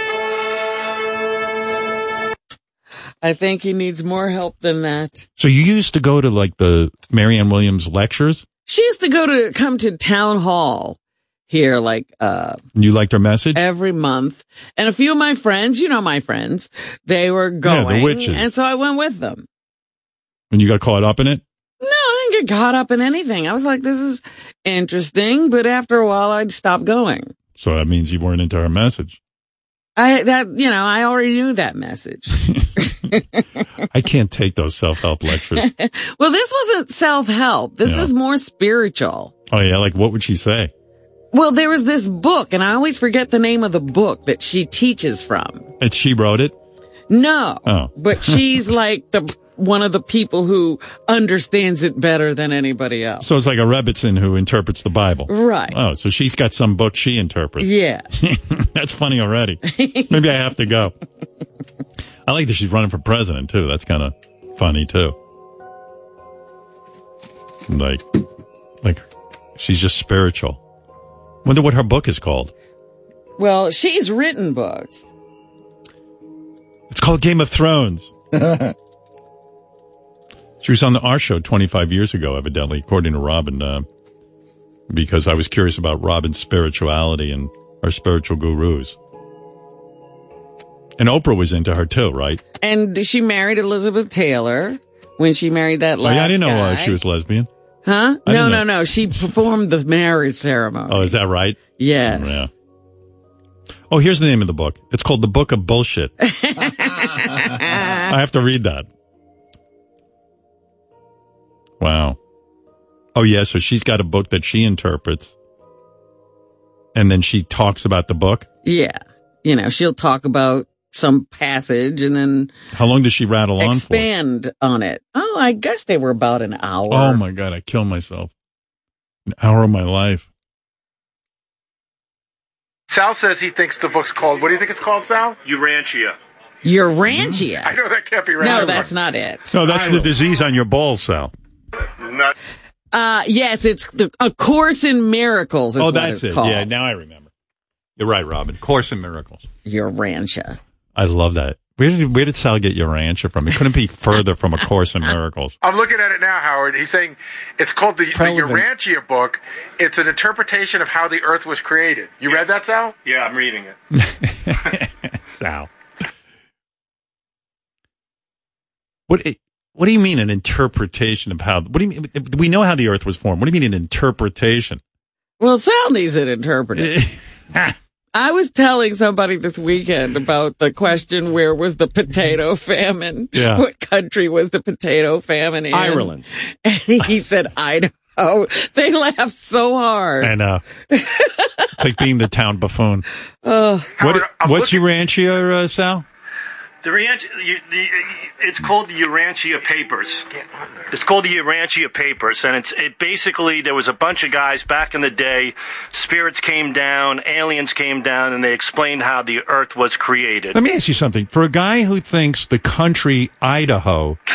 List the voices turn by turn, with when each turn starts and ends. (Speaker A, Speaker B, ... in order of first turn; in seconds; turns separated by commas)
Speaker A: 3.2-5.3, Speaker B: 5.4-8.4, Speaker A: 8.7-11.0, Speaker A: 11.5-12.6, Speaker B: 12.7-13.6, Speaker A: 13.6-19.4, Speaker B: 17.6-18.5, Speaker B: 20.5-21.4, Speaker A: 21.8-27.3, Speaker B: 27.6-29.2, Speaker A: 29.9-33.4, Speaker B: 33.9-35.7, Speaker A: 35.5-39.3, Speaker B: 37.8-38.1, Speaker B: 39.5-40.7, Speaker A: 41.3-45.7, Speaker B: 45.8-46.5, Speaker A: 47.1-53.3, Speaker B: 47.7-48.7, Speaker B: 53.2-60.9, Speaker A: 55.3-55.8, Speaker A: 57.6-58.0, Speaker A: 59.7-60.3, Speaker B: 62.3-65.2, Speaker B: 67.7-68.2, Speaker B: 69.5-70.6, Speaker B: 71.5-72.5, Speaker A: 73.4-75.0, Speaker B: 76.9-78.1, Speaker B: 80.6-83.9, Speaker B: 84.9-89.0, Speaker B: 91.0-92.4, Speaker A: 92.6-97.0, Speaker B: 96.0-97.5, Speaker A: 97.9-101.1, Speaker B: 98.2-99.2, Speaker B: 100.9-102.5, Speaker A: 101.8-102.4, Speaker B: 103.9-106.1, Speaker A: 106.2-108.1, Speaker B: 108.1-108.9, Speaker B: 111.8-112.2, Speaker B: 113.1-115.3, Speaker B: 117.0-118.5, Speaker A: 118.6-122.5, Speaker B: 122.7-124.1, Speaker A: 123.6-127.2, Speaker B: 126.9-128.3, Speaker B: 129.3-130.3, Speaker C: 132.9-135.4, Speaker D: 135.4-136.2, Speaker A: 136.6-137.8, Speaker B: 137.1-137.4, Speaker C: 137.6-138.9, Speaker A: 138.4-139.6, Speaker B: 139.5-141.3, Speaker D: 139.7-140.1, Speaker A: 142.9-146.7, Speaker B: 145.8-147.3, Speaker B: 148.0-149.4, Speaker A: 149.6-150.6, Speaker B: 150.9-155.6, Speaker C: 155.6-162.9, Speaker B: 158.1-158.6, Speaker D: 163.0-163.7, Speaker B: 163.9-165.7, Speaker B: 169.1-174.8, Speaker A: 175.4-177.0, Speaker B: 176.8-177.7, Speaker A: 178.1-190.3, Speaker B: 183.3-183.6, Speaker B: 190.2-190.6, Speaker A: 190.9-191.7, Speaker B: 191.8-193.1, Speaker A: 193.4-193.9, Speaker C: 194.0-194.8, Speaker B: 194.0-196.1, Speaker D: 196.8-200.3, Speaker D: 200.9-210.6, Speaker B: 210.5-214.2